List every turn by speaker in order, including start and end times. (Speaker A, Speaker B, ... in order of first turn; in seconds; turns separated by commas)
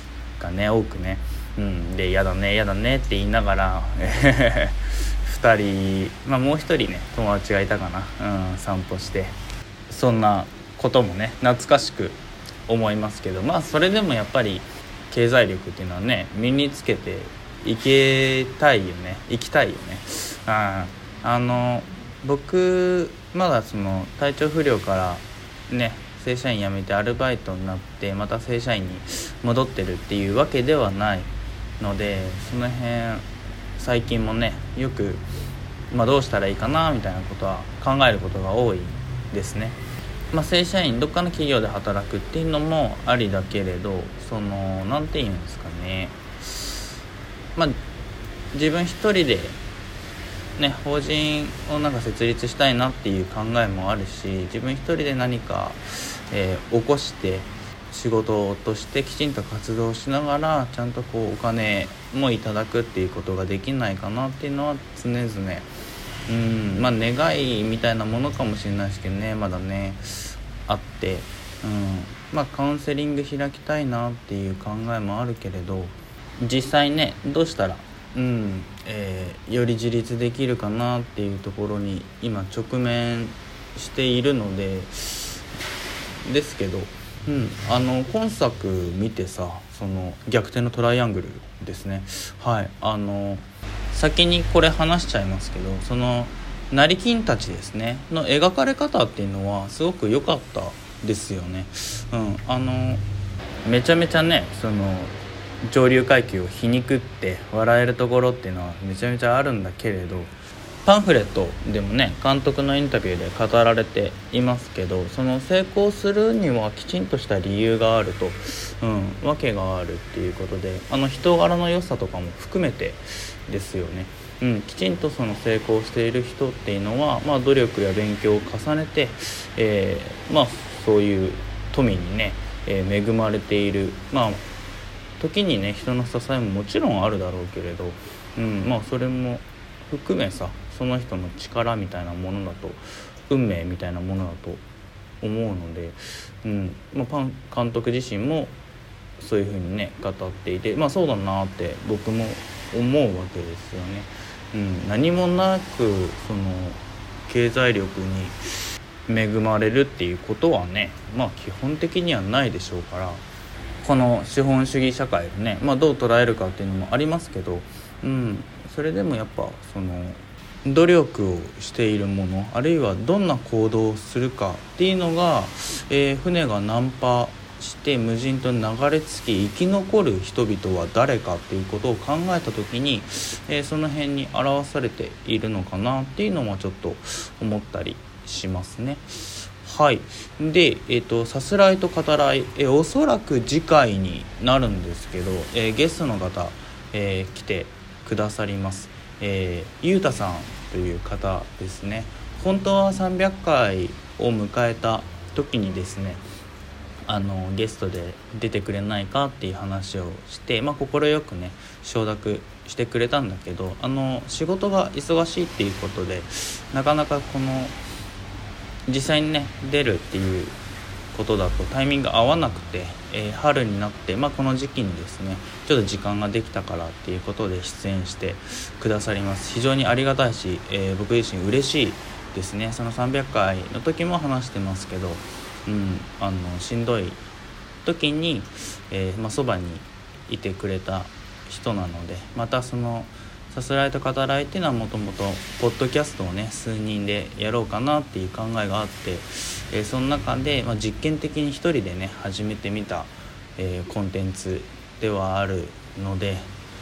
Speaker A: 0.4-9.3, Speaker A: 9.9-33.2, Speaker A: 33.8-35.2, Speaker A: 35.9-39.8, Speaker A: 40.3-46.8, Speaker A: 48.5-49.6, Speaker A: 50.6-65.7, Speaker A: 66.3-85.4, Speaker A: 86.2-103.0, Speaker A: 103.6-110.3, Speaker A: 110.8-134.4, Speaker A: 135.2-144.6, Speaker A: 145.2-148.5, Speaker A: 149.2-158.3, Speaker A: 159.1-163.2, Speaker A: 163.8-206.2, Speaker A: 207.1-217.8, Speaker A: 218.9-220.6, Speaker A: 221.1-237.2, Speaker A: 237.8-256.5